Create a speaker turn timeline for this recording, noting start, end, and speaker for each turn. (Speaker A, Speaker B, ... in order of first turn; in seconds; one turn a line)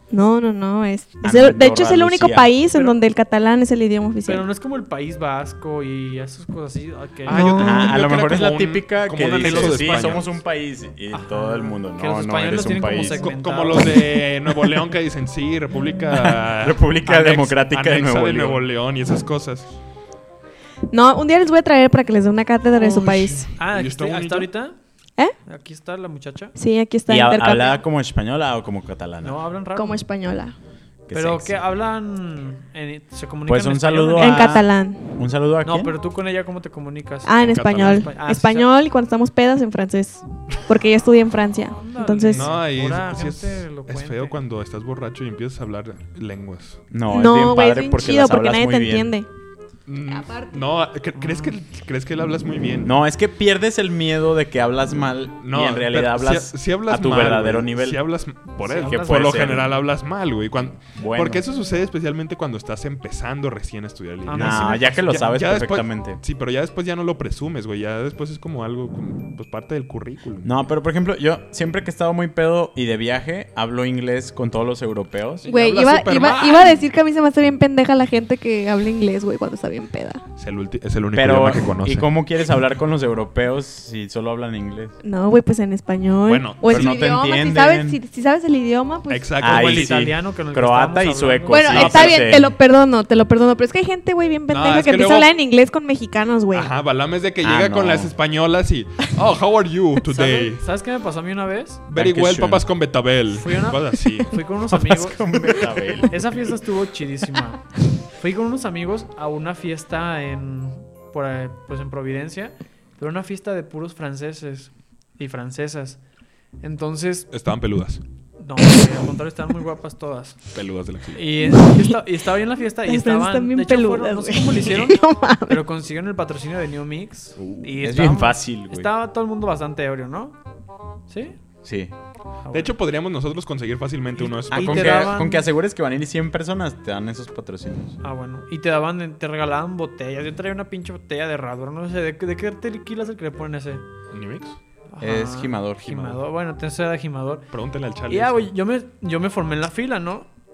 Speaker A: 0.1-4.5
Speaker B: 1.2-2.5
Speaker C: 2.7-3.0
Speaker C: 4.3-8.0
Speaker D: 7.2-10.4
Speaker B: 7.4-13.2
Speaker C: 9.6-10.1
Speaker C: 11.1-14.0
Speaker D: 13.2-19.8
Speaker B: 16.2-18.6
Speaker A: 20.9-23.5
Speaker C: 22.8-24.8
Speaker D: 23.1-24.5
Speaker C: 25.4-26.6
Speaker A: 26.6-27.8
Speaker B: 27.1-29.4
Speaker C: 29.2-30.0
Speaker A: 29.8-30.5
Speaker B: 31.1-31.6
Speaker C: 31.1-34.6
Speaker B: 33.5-35.9
Speaker A: 34.2-35.1
Speaker C: 35.6-38.7
Speaker A: 37.2-42.5
Speaker D: 37.4-38.1
Speaker C: 41.8-44.4
Speaker D: 42.3-46.8
Speaker B: 46.9-49.1
Speaker A: 47.1-49.3
Speaker D: 49.9-53.0
Speaker A: 50.1-50.7
Speaker C: 51.1-51.6
Speaker B: 52.8-58.0
Speaker D: 55.4-70.5
Speaker C: 58.6-59.5
Speaker B: 58.8-59.7
Speaker B: 61.0-61.4
Speaker C: 64.2-65.2
Speaker B: 64.4-66.2
Speaker B: 70.4-75.5
Speaker D: 75.4-76.9
Speaker A: 75.5-80.2
Speaker D: 80.4-82.1
Speaker B: 81.1-85.0
Speaker A: 85.0-89.3
Speaker D: 86.2-86.9
Speaker B: 86.7-88.0
Speaker D: 89.1-90.0
Speaker B: 89.4-92.5
Speaker C: 89.4-92.2
Speaker A: 91.5-96.7
Speaker D: 91.8-92.2
Speaker D: 94.5-95.3
Speaker D: 96.5-100.6
Speaker B: 97.4-98.1
Speaker C: 100.1-101.9
Speaker D: 101.9-104.4
Speaker B: 101.9-102.7
Speaker C: 103.3-116.0
Speaker B: 104.7-106.5
Speaker C: 116.6-117.3
Speaker D: 117.3-118.0
Speaker C: 118.4-120.6
Speaker D: 120.5-121.5
Speaker C: 121.1-130.4
Speaker A: 121.4-122.0
Speaker A: 122.8-125.6
Speaker D: 127.4-127.7
Speaker B: 127.8-128.9
Speaker C: 131.1-131.4
Speaker B: 131.6-131.9
Speaker C: 132.4-132.7
Speaker D: 132.5-135.2
Speaker C: 134.2-135.4
Speaker B: 134.5-138.0
Speaker C: 138.0-143.8
Speaker D: 144.1-144.6
Speaker C: 144.9-147.5
Speaker B: 145.0-146.2
Speaker D: 147.5-148.5
Speaker C: 148.1-150.3